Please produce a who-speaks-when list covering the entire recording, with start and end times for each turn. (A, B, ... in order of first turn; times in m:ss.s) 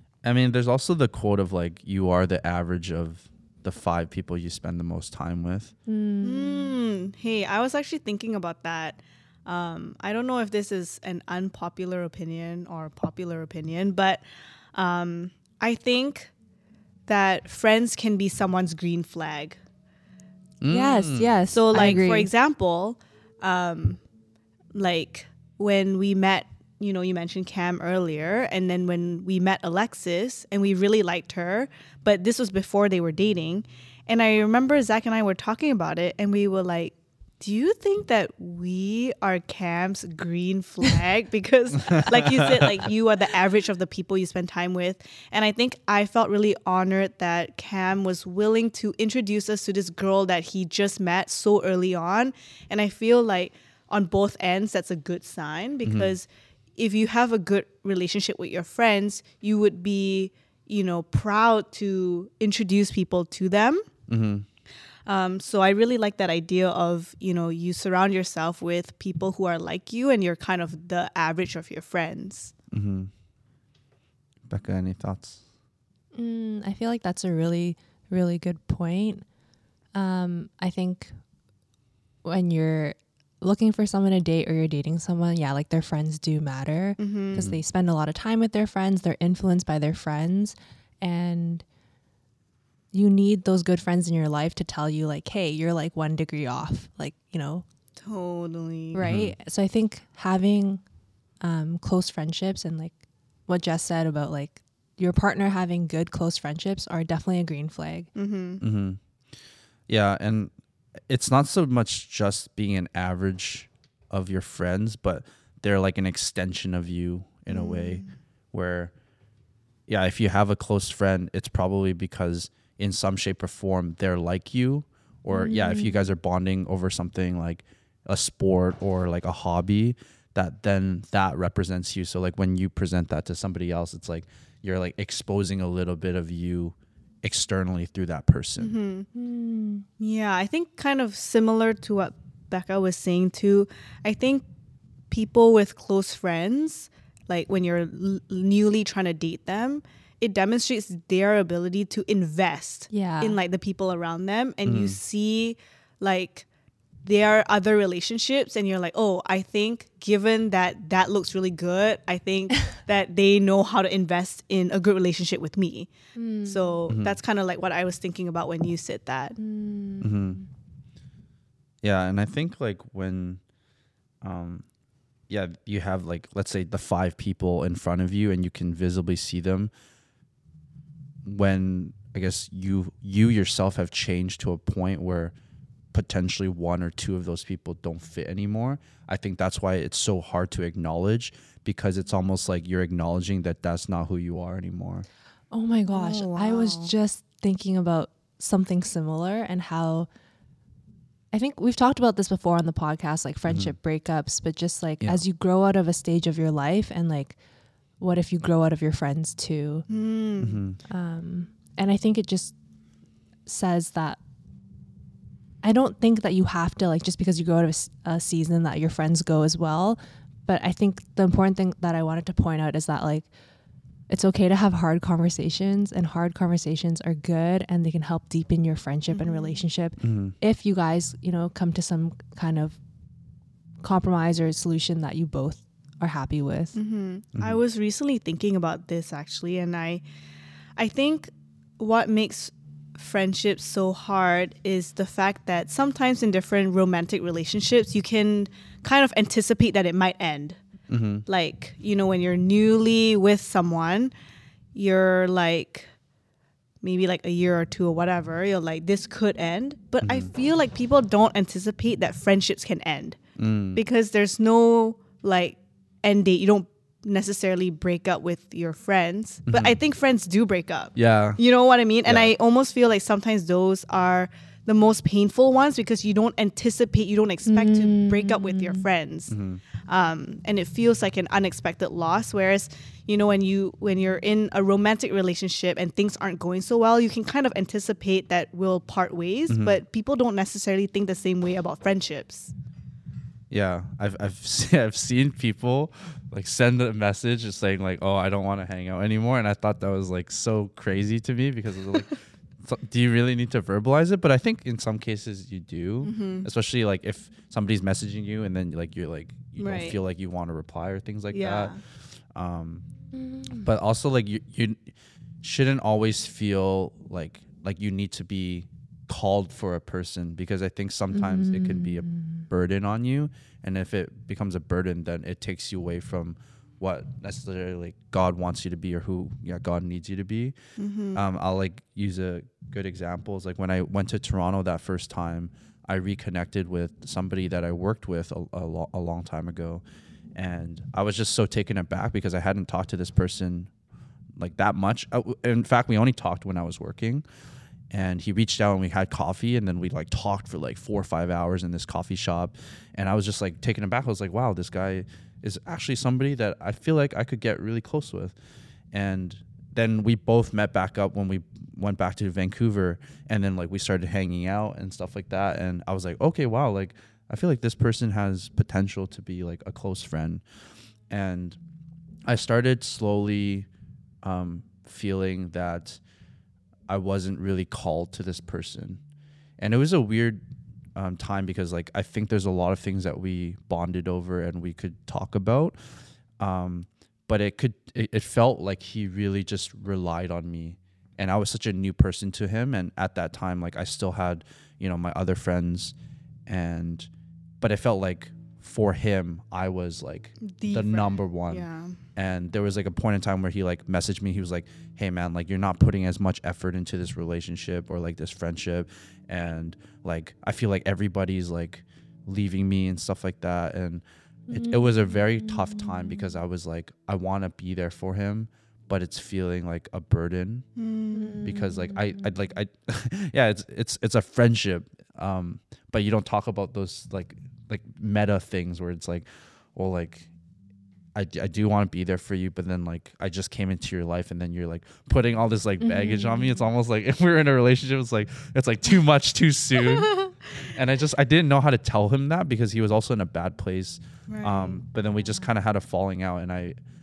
0:00.2-0:05.7 A
0:05.9-0:06.8 B
0:06.2-0:14.2 C
0:14.7-0:16.3 C
0:17.1-0:19.6 C
0:20.6-0:21.8 A
0:20.7-0:22.3 B
0:21.5-0:24.0 C
0:24.7-1:03.8 C
0:55.8-0:56.1 A
1:04.1-1:04.5 A
1:05.1-1:12.5 C
1:12.7-1:13.1 A
1:14.5-1:15.4 A
1:16.1-1:19.2 B
1:19.9-1:21.1 B
1:22.2-1:31.6 B
1:27.0-1:27.5 C
1:32.9-1:37.6 B
1:38.0-1:39.0 C
1:38.9-1:40.8 B
1:39.0-1:39.4 A
1:41.4-1:48.1 B
1:48.2-1:48.6 C
1:48.6-1:49.0 A
1:49.9-1:50.5 A
1:51.1-1:58.9 A
1:57.5-1:58.1 C
1:59.9-2:18.8 A
2:05.3-2:06.0 B
2:18.6-2:19.1 C
2:19.1-2:19.9 B
2:20.0-2:24.5 C
2:25.1-2:36.5 C
2:32.9-2:33.4 B
2:34.7-2:35.0 A
2:37.0-2:45.9 C
2:46.2-2:46.8 B
2:46.4-2:49.4 C
2:46.9-2:47.2 A
2:49.4-2:50.4 B
2:50.0-2:50.4 A
2:51.8-2:53.4 A
2:54.2-2:54.6 A
2:55.3-2:59.7 A
3:01.2-3:05.3 A
3:05.9-3:15.1 A
3:15.5-3:20.1 B
3:15.9-3:16.9 C
3:21.3-3:27.4 B
3:23.5-3:23.8 A
3:28.0-3:29.9 B
3:29.9-3:30.6 C
3:30.4-3:30.8 A
3:30.9-3:32.6 B
3:33.5-3:34.2 B
3:35.6-3:43.3 B
3:44.1-3:52.8 B
3:49.1-3:49.6 C
3:50.0-3:50.4 A
3:53.8-3:56.8 B
3:56.7-4:00.0 C
4:00.8-4:10.6 C
4:10.9-4:11.2 A
4:11.3-4:14.1 C
4:14.8-4:15.9 C
4:16.8-4:23.2 C
4:20.0-4:20.3 A
4:23.4-4:23.8 A
4:23.8-4:39.3 C
4:29.5-4:29.8 A
4:31.0-4:31.4 A
4:32.1-4:32.3 A
4:37.5-4:38.8 B
4:39.3-4:39.6 A
4:39.9-4:52.5 C
4:49.5-4:49.8 A
4:53.5-5:11.7 A
5:06.0-5:06.5 C
5:09.6-5:10.0 C
5:11.3-5:11.8 C
5:12.3-5:12.8 A
5:13.1-5:13.7 B
5:13.6-5:14.8 A
5:15.4-5:30.6 A
5:21.1-5:22.4 B
5:30.8-5:31.2 C
5:31.2-5:39.8 A
5:40.4-5:43.7 A
5:44.4-5:47.2 A
5:47.9-5:58.4 A
5:58.9-6:10.4 A
6:11.1-6:11.6 A
6:12.3-6:13.7 A
6:14.2-6:16.0 A
6:16.9-6:19.0 A
6:19.6-6:20.4 A
6:21.0-6:25.8 A
6:26.4-6:36.0 A
6:36.5-6:37.1 A
6:37.6-7:00.7 A
6:40.4-6:42.0 C
6:54.5-6:56.3 B
7:00.8-7:01.5 C
7:01.1-7:02.3 B
7:01.4-7:10.3 A
7:11.2-7:26.8 A
7:15.8-7:16.7 B
7:19.8-7:20.3 C
7:24.3-7:24.8 C